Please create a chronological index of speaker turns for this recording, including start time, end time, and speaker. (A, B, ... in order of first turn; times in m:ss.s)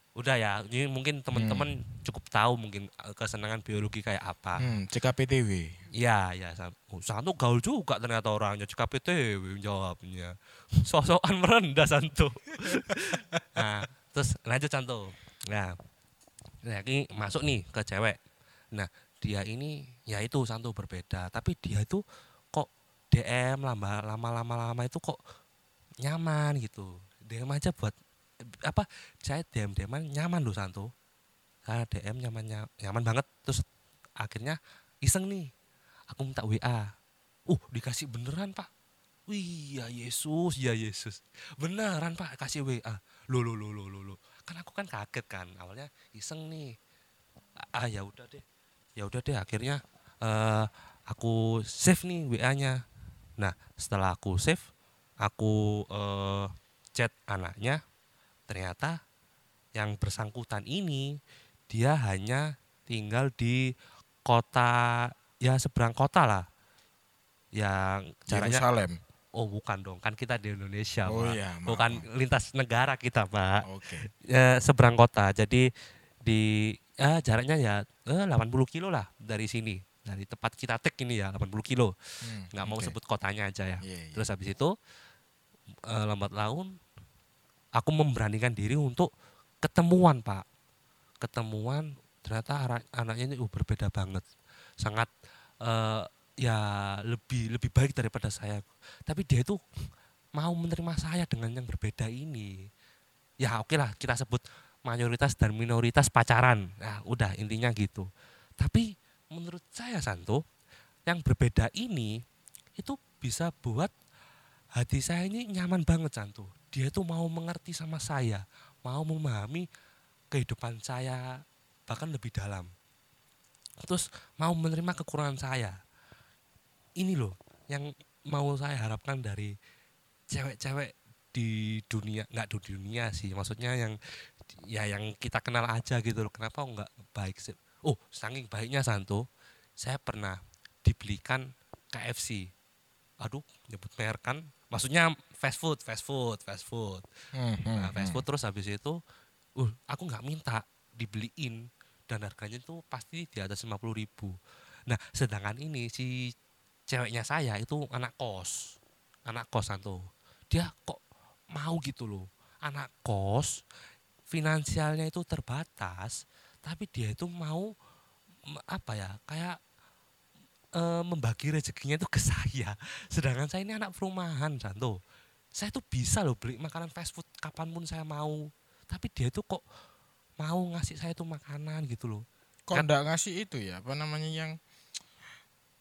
0:00.2-0:04.7 A
0:01.3-0:01.7 B
0:04.6-0:05.7 B
0:06.0-0:15.8 A
0:13.4-0:13.7 B
0:16.6-0:18.2 A
0:18.7-0:22.0 A
0:22.5-0:25.2 A
0:26.0-0:27.9 A
0:28.6-0:30.9 A
0:31.6-0:33.6 A
0:34.2-0:35.5 A
0:36.1-0:36.9 A
0:37.5-0:38.7 A
0:39.3-0:46.7 A
0:47.7-0:48.4 A
0:49.0-0:52.8 A
0:53.4-0:54.6 A
0:55.2-0:57.8 A
0:58.5-0:59.0 A
0:59.7-1:01.1 A
1:01.7-1:03.7 A
1:04.2-1:06.4 A
1:07.6-1:08.6 A
1:08.3-1:09.0 B
1:09.4-1:13.6 A
1:11.1-1:12.0 B
1:13.6-1:14.1 B
1:14.2-1:15.7 A
1:16.2-1:21.9 A
1:22.2-1:22.9 B
1:22.5-1:24.7 A
1:23.8-1:24.2 B
1:25.9-1:26.7 A
1:27.8-1:29.1 A
1:29.6-1:30.4 A
1:31.2-1:34.2 A
1:34.8-1:35.1 A
1:35.6-1:39.6 A
1:40.4-1:42.5 A
1:43.4-1:48.1 A
1:48.6-1:50.4 A
1:51.1-1:52.1 A
1:52.8-1:53.9 A
1:54.8-1:59.6 A
2:00.3-2:01.2 A
2:01.9-2:02.7 A
2:03.8-2:05.8 A
2:07.0-2:09.5 A
2:10.3-2:14.0 A
2:14.7-2:19.2 A
2:19.8-2:22.5 A
2:23.2-2:27.0 A
2:27.3-2:28.2 B
2:27.8-2:29.0 A
2:29.6-2:34.3 A
2:34.9-2:36.3 A
2:36.9-2:38.6 A
2:39.3-2:41.0 A
2:41.5-2:43.5 A
2:44.3-2:47.7 A
2:48.5-2:49.6 A
2:50.8-2:55.0 A
2:55.6-2:59.6 A
3:00.4-3:02.9 A
3:02.7-3:04.6 B